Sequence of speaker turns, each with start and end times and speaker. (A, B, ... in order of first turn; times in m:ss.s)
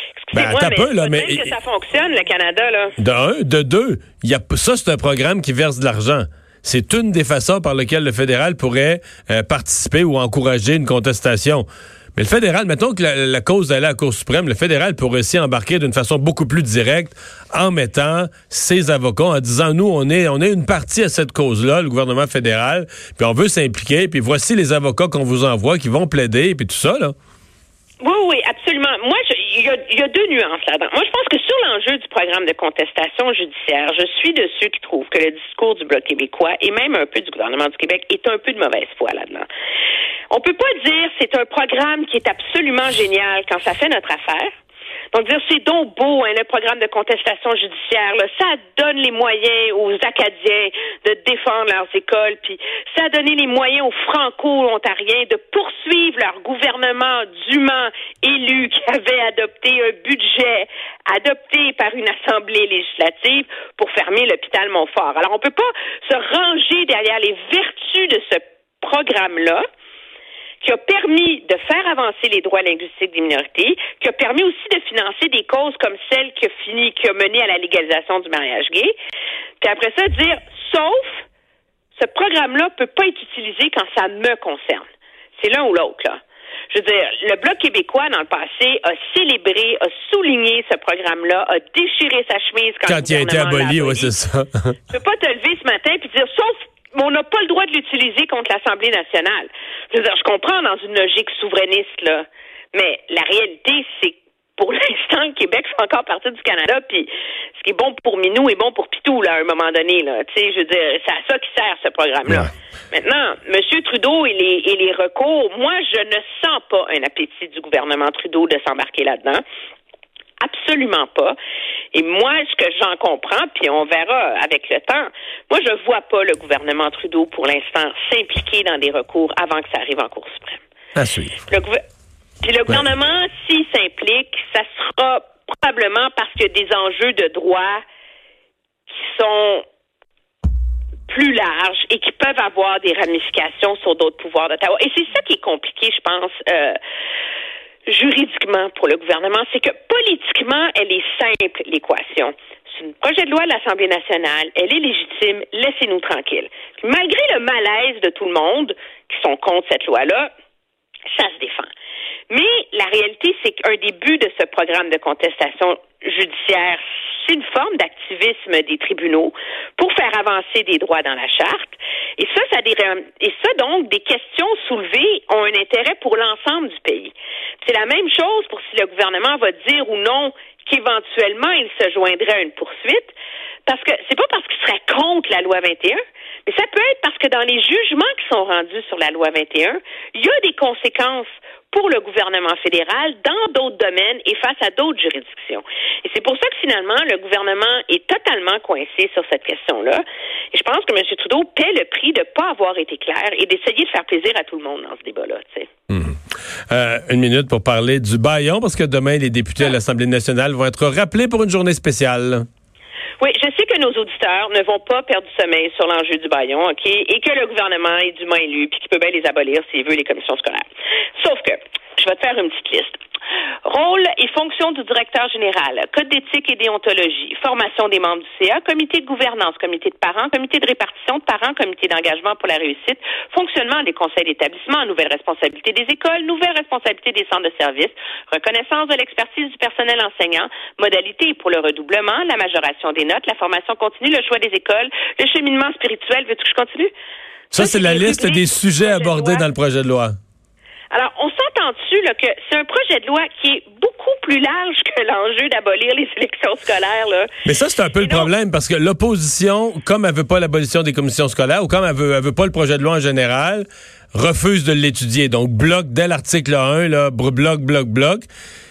0:00.2-0:02.9 A
0:00.3-0:01.5 B
0:03.0-0:27.1 B
0:28.0-0:39.5 A
0:40.3-0:44.5 A
0:45.1-1:09.6 A
1:10.6-1:18.9 A
1:19.6-1:21.2 A
1:21.9-1:24.8 A
1:25.4-1:26.2 A
1:26.7-1:34.1 A
1:32.8-1:34.7 B
1:34.9-1:59.4 A
2:00.4-2:01.3 A
2:01.9-2:10.6 A
2:11.0-2:11.4 B
2:11.5-2:11.8 A
2:12.4-2:17.8 A
2:18.9-2:19.6 A
2:21.1-2:26.8 A
2:27.9-2:40.3 A
2:41.1-2:41.7 A
2:42.3-3:03.1 A
3:03.6-3:25.7 A
3:25.9-3:26.2 B
3:26.7-3:32.4 B
3:33.2-3:40.6 A
3:41.2-3:43.0 A
3:43.6-4:06.9 A
4:07.5-4:10.1 B
4:07.5-4:09.5 A
4:10.9-4:17.3 A
4:17.4-4:28.2 B
4:18.0-4:18.3 A